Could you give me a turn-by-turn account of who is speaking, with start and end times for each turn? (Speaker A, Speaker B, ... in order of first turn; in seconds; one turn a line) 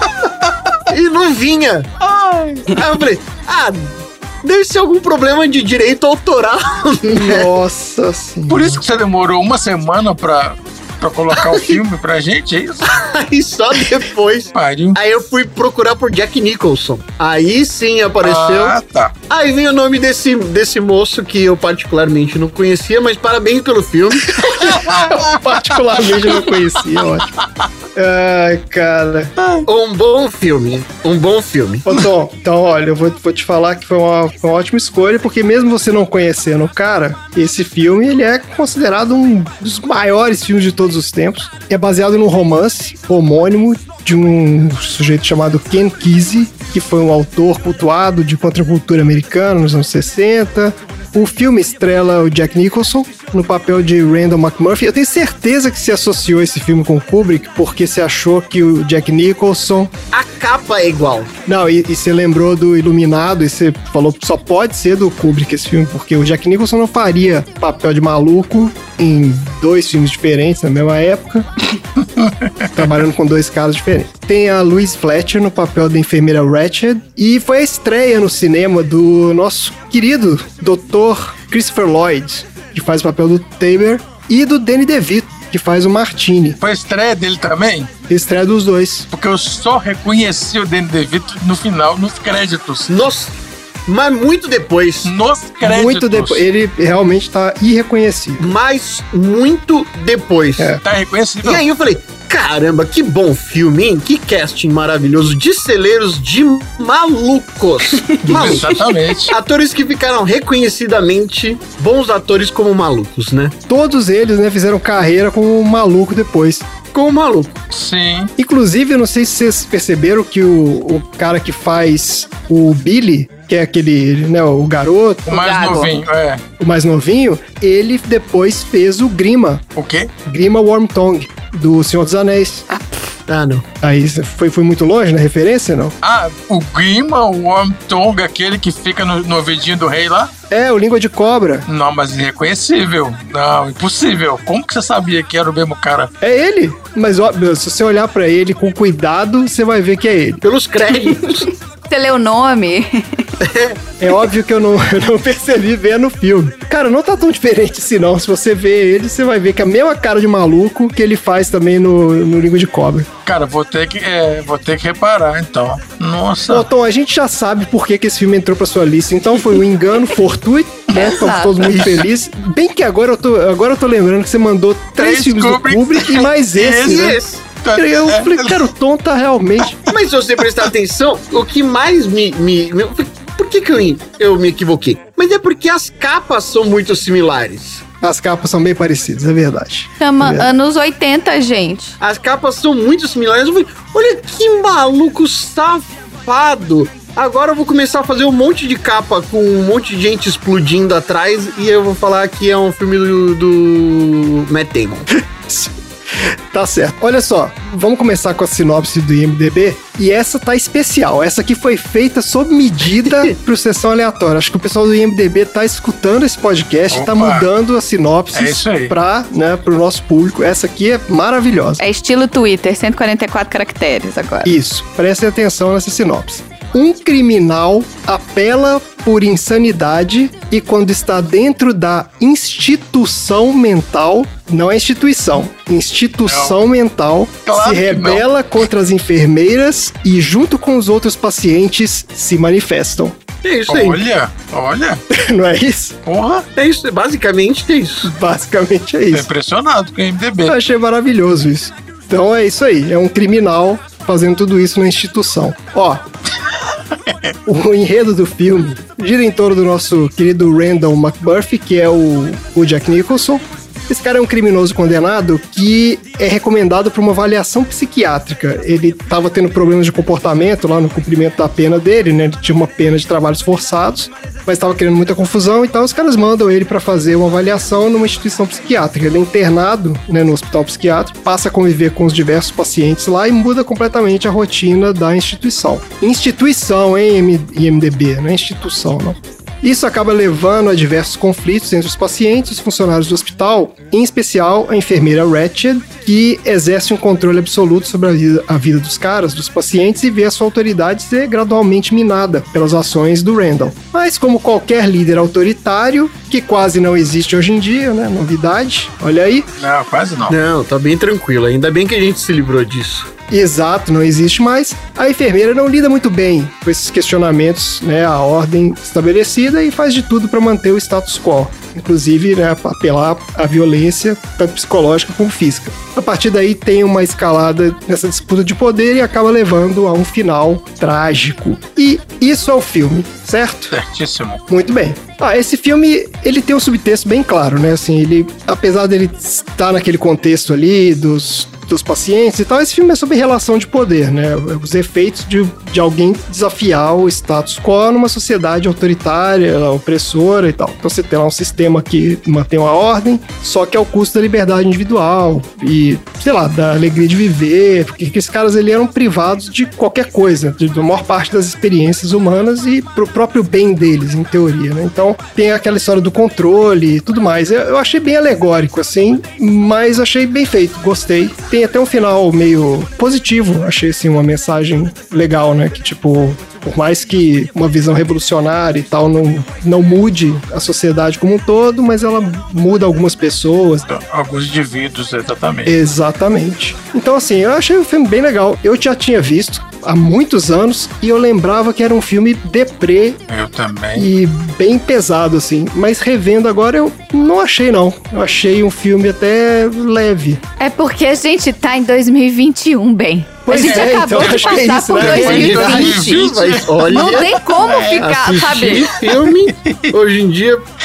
Speaker A: 0.9-1.9
Speaker B: 2.0-2.8
Speaker A: 2.7-7.5
Speaker C: 7.1-8.8
Speaker B: 8.5-13.0
Speaker A: 11.3-11.8
Speaker A: 12.8-18.7
Speaker B: 14.5-15.0
Speaker B: 18.2-19.1
Speaker A: 19.3-24.6
Speaker B: 24.6-26.5
Speaker C: 24.6-27.3
Speaker C: 27.9-29.3
Speaker A: 29.7-31.8
Speaker C: 31.8-59.9
Speaker A: 60.1-61.3
Speaker C: 61.5-71.5
Speaker B: 72.2-72.7
Speaker C: 72.7-86.6
Speaker B: 86.6-87.9
Speaker C: 88.1-89.1
Speaker B: 89.1-93.0
Speaker A: 92.9-95.1
Speaker B: 95.0-96.4
Speaker C: 95.6-98.5
Speaker A: 98.4-100.8
Speaker B: 100.8-101.6
Speaker A: 101.4-113.5
Speaker B: 108.2-109.3
Speaker C: 108.3-108.6
Speaker C: 113.7-116.7
Speaker A: 116.9-117.6
Speaker B: 117.7-118.3
Speaker C: 118.4-125.6
Speaker B: 125.3-126.4
Speaker D: 125.3-125.9
Speaker C: 126.6-129.6
Speaker B: 129.8-130.1
Speaker C: 130.2-132.6
Speaker D: 132.7-133.0
Speaker A: 133.3-133.6
Speaker C: 133.8-135.9
Speaker B: 136.0-140.3
Speaker C: 140.5-141.7
Speaker B: 141.7-146.1
Speaker C: 146.2-150.4
Speaker A: 150.4-151.5
Speaker D: 151.9-153.3
Speaker A: 153.4-153.8
Speaker C: 154.0-163.1
Speaker B: 163.2-166.7
Speaker C: 166.5-177.2
Speaker D: 171.0-171.5
Speaker B: 175.0-178.6
Speaker A: 176.8-177.4
Speaker C: 177.7-179.8
Speaker A: 179.9-187.8
Speaker C: 188.0-190.5
Speaker D: 190.0-192.0
Speaker A: 192.0-205.1
Speaker C: 205.1-221.8
Speaker B: 216.9-217.5
Speaker B: 218.3-218.9
Speaker D: 221.8-224.5
Speaker C: 224.4-243.2
Speaker B: 236.2-236.6
Speaker B: 237.5-238.2
Speaker A: 243.4-244.0
Speaker B: 243.7-245.0
Speaker C: 245.1-246.0
Speaker B: 246.0-246.4
Speaker A: 246.6-248.1
Speaker C: 248.0-249.3
Speaker B: 249.1-250.6
Speaker C: 250.4-256.0
Speaker C: 257.4-309.5
Speaker B: 309.6-310.4
Speaker A: 310.3-313.1
Speaker C: 313.3-333.7
Speaker B: 333.7-334.4
Speaker C: 334.5-383.8
Speaker B: 383.9-385.7
Speaker C: 385.6-393.2
Speaker B: 393.3-394.1
Speaker C: 393.9-400.4
Speaker D: 400.6-406.3
Speaker C: 403.4-406.0
Speaker B: 403.5-408.0
Speaker A: 405.1-410.6
Speaker D: 406.9-408.9
Speaker B: 409.1-409.9